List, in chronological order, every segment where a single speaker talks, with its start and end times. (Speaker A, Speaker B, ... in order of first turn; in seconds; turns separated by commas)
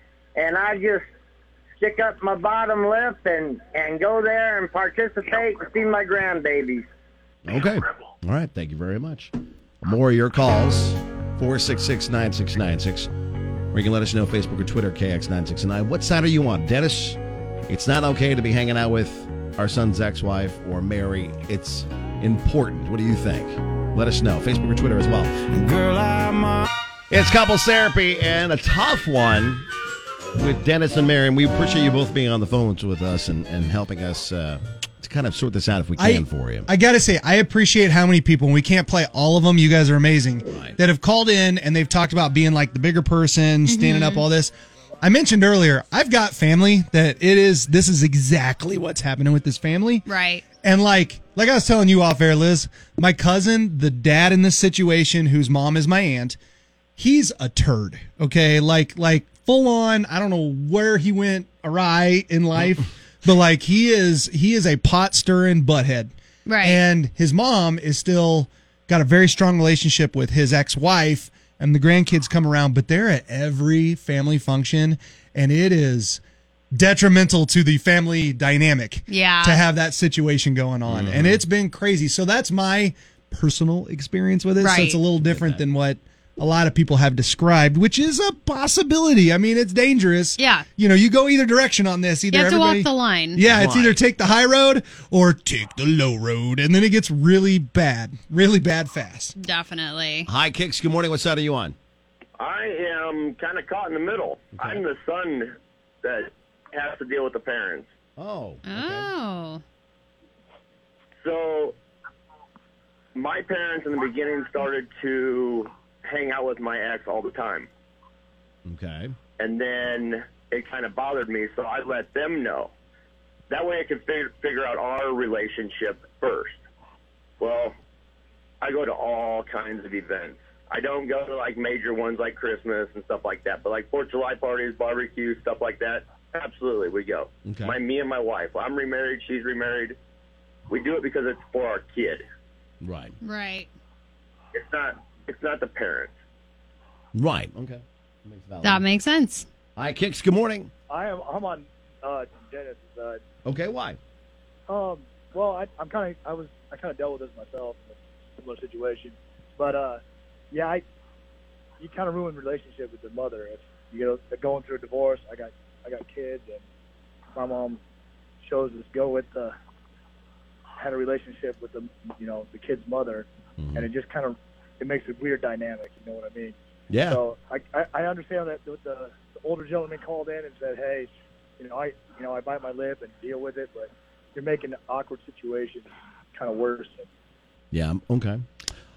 Speaker A: 0.3-1.1, Speaker A: 1.8-6.9, Speaker B: 7.5-13.1, Speaker B: 13.7-29.6, Speaker B: 30.3-36.7, Speaker C: 36.0-50.0, Speaker B: 40.5-40.8, Speaker D: 43.6-44.2, Speaker D: 50.1-50.4, Speaker C: 50.6-56.4, Speaker C: 57.0-76.2, Speaker D: 66.5-66.8, Speaker C: 76.7-99.3, Speaker D: 79.1-79.6, Speaker B: 80.9-81.4, Speaker D: 84.6-85.0, Speaker B: 85.2-85.6, Speaker D: 90.4-90.7, Speaker D: 92.3-93.4, Speaker B: 93.4-94.0, Speaker D: 99.4-100.3, Speaker B: 100.3-101.7, Speaker A: 102.4-105.5, Speaker B: 104.5-104.8, Speaker A: 106.0-107.9, Speaker B: 108.2-109.1, Speaker D: 108.6-109.6, Speaker A: 111.2-111.8, Speaker A: 113.1-117.7, Speaker B: 118.7-119.2, Speaker A: 119.4-122.7, Speaker A: 123.5-126.6, Speaker A: 127.4-127.7, Speaker A: 128.6-140.0, Speaker B: 137.4-137.8, Speaker A: 140.7-142.2, Speaker B: 142.8-143.1, Speaker D: 143.2-143.7, Speaker A: 144.5-146.1, Speaker B: 147.1-148.8, Speaker D: 148.6-149.4, Speaker B: 149.8-150.7, Speaker E: 150.9-153.2, Speaker B: 153.4-154.0, Speaker E: 154.7-160.0, Speaker E: 160.5-160.8, Speaker E: 161.8-166.6, Speaker E: 167.3-167.8, Speaker E: 168.4-169.5, Speaker E: 170.8-176.5, Speaker B: 173.6-173.9, Speaker B: 176.9-177.2, Speaker E: 177.1-187.1, Speaker B: 187.7-188.4